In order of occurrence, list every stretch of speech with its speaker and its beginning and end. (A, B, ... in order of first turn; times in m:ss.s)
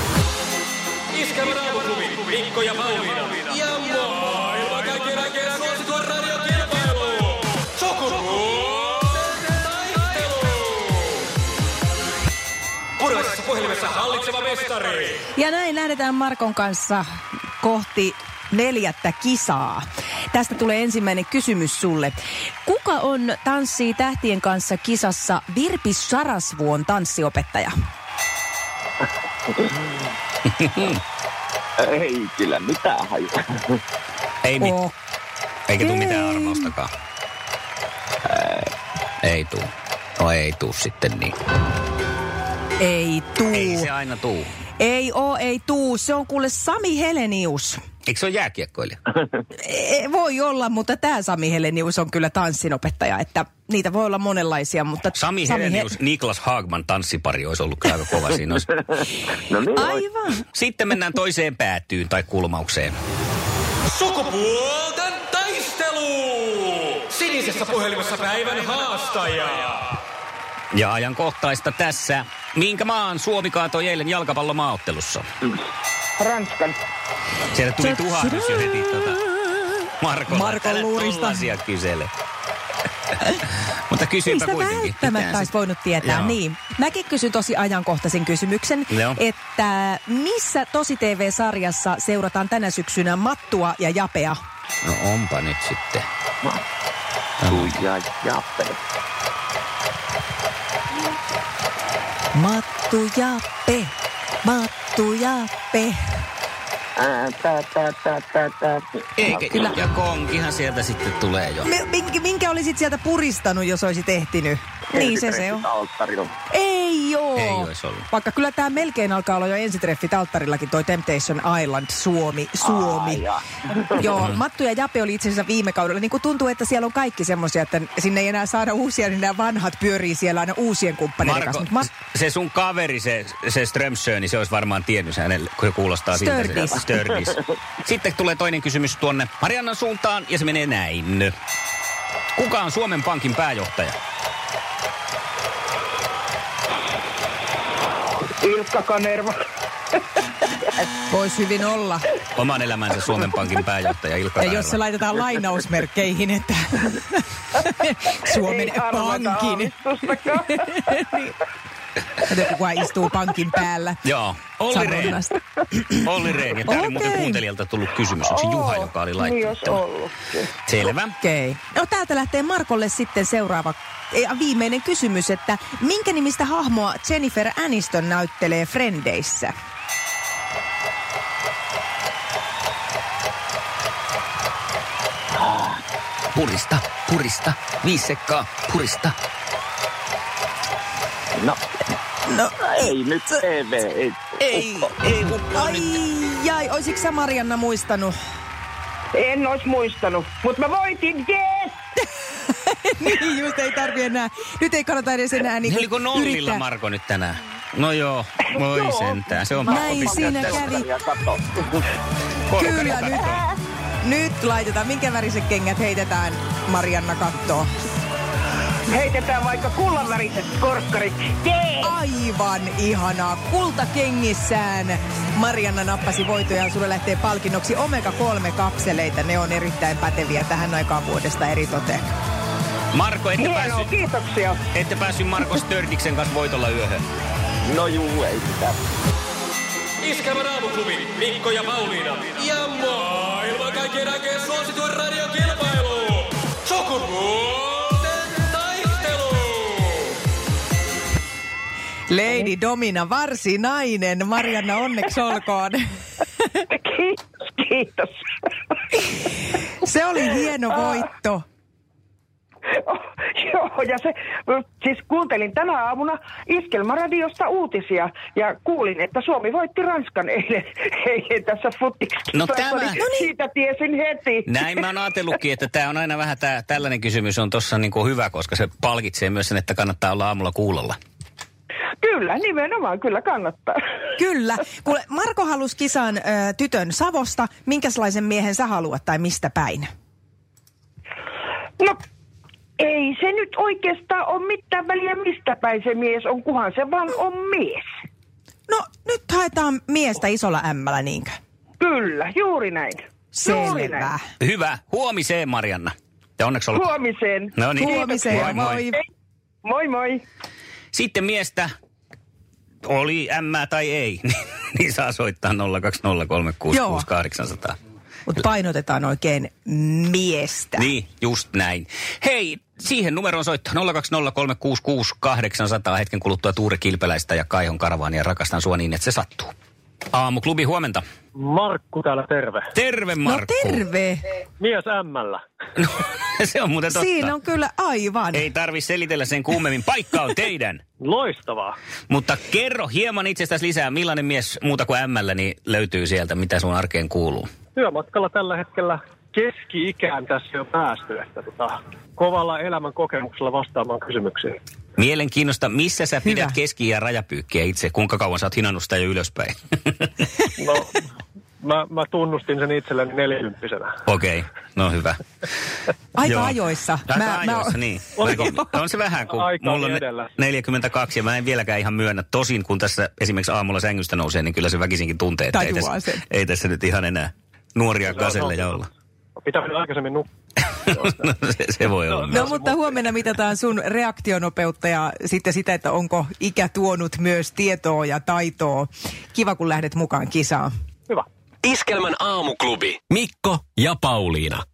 0:01.1-0:11.1 A
0:13.0-0:15.2 A
0:15.3-0:17.0 B
0:17.6-0:27.7 B
0:30.6-0:31.0 C
0:31.8-0:33.8 D
0:34.4-0:34.8 C
0:34.6-0:34.9 B
0:35.7-0:36.9 C
0:35.8-0:36.7 B
0:38.2-0:38.7 D
0:39.2-0:41.3 C
0:42.8-0:43.9 B
0:43.5-0:44.5 C
0:44.8-0:47.8 B
0:48.0-0:49.0 C
0:49.6-0:56.0 B
0:55.2-0:58.7 C
0:58.7-1:00.0 D
0:59.7-1:00.4 B
1:00.5-1:02.9 C
1:03.9-1:09.9 A
1:10.7-1:15.2 C
1:16.2-1:16.8 E
1:17.5-1:19.2 C
1:17.8-1:19.7 B
1:20.0-1:22.1 C
1:20.3-1:21.5 B
1:23.9-1:25.5 C
1:24.2-1:34.4 B
1:26.0-1:26.4 C
1:28.9-1:29.2 C
1:34.8-1:36.1 C
1:37.4-1:37.8 C
1:37.4-1:38.8 D
1:42.3-1:43.9 B
1:44.4-1:46.0 B
1:47.0-1:49.8 D
1:49.2-1:51.7 C
1:51.6-1:55.6 B
1:54.9-1:56.3 D
1:56.5-2:03.3 B
1:57.4-1:58.1 C
2:02.6-2:04.2 D
2:03.9-2:11.9 B
2:11.2-2:21.3 C
2:16.1-2:17.0 B
2:22.4-2:24.0 C
2:28.3-2:29.3 E
2:31.1-2:32.1 B
2:32.3-2:34.8 C
2:34.4-2:41.3 B
2:38.3-2:41.0 E
2:42.2-2:44.0 B
2:44.0-2:45.2 C
2:44.7-2:46.1 B
2:46.0-2:49.8 C
2:46.6-2:47.4 B
2:48.2-2:50.5 E
2:50.6-2:51.2 C
2:51.2-2:59.5 B
3:05.4-3:05.8 D
3:06.3-3:09.1 C
3:12.3-3:12.9 B
3:12.6-3:14.9 D
3:14.4-3:16.0 C
3:15.5-3:18.1 B
3:19.1-3:21.8 E
3:22.6-3:26.6 B
3:25.6-3:30.7 C
3:29.6-3:31.6 D
3:29.6-3:30.9 B
3:32.5-3:33.4 C
3:32.5-3:33.3 B
3:34.0-3:37.7 B
3:38.9-3:42.0 E
3:41.8-3:52.0 B
3:52.9-3:53.9 C
3:53.4-3:54.6 E
3:54.7-3:57.0 C
3:57.6-3:58.8 D
4:00.0-4:10.1 A
4:12.1-4:16.4 B
4:16.7-4:18.1 E
4:19.8-4:21.4 B
4:22.7-4:34.8 E
4:32.3-4:33.1 C
4:34.4-4:41.0 C
4:42.0-4:43.8 E
4:44.2-4:49.9 B
4:52.8-4:57.8 E
4:58.7-5:01.3 B
5:01.8-5:04.1 E
5:03.3-5:04.2 B
5:04.4-5:06.9 C
5:06.7-5:08.7 E
5:07.5-5:08.9 C
5:07.8-5:09.0 B
5:09.6-5:10.2 E
5:10.9-5:11.7 C
5:12.8-5:17.8 C
5:16.7-5:17.1 B
5:18.3-5:20.9 B
5:20.8-5:29.5 C
5:30.1-5:31.0 C
5:31.3-5:32.6 F
5:32.7-5:33.8 C
5:33.2-5:34.2 B
5:34.6-5:35.4 F
5:35.8-5:37.3 C
5:36.9-5:38.5 B
5:38.3-5:40.8 C
5:41.0-5:41.7 F
5:42.1-5:47.5 C
5:47.7-5:54.6 F
5:55.0-6:00.3 C
5:56.2-5:56.6 B
6:00.6-6:00.9 F
6:01.6-6:03.9 F
6:04.0-6:05.2 C
6:06.2-6:07.8 B
6:06.2-6:06.6 C
6:07.1-6:18.9 C
6:08.2-6:08.6 F
6:09.2-6:10.3 F
6:15.5-6:16.2 B
6:18.1-6:18.8 F
6:19.4-6:20.2 F
6:20.9-6:22.6 C
6:22.2-6:23.0 F
6:22.3-6:30.7 B
6:31.6-6:34.6 G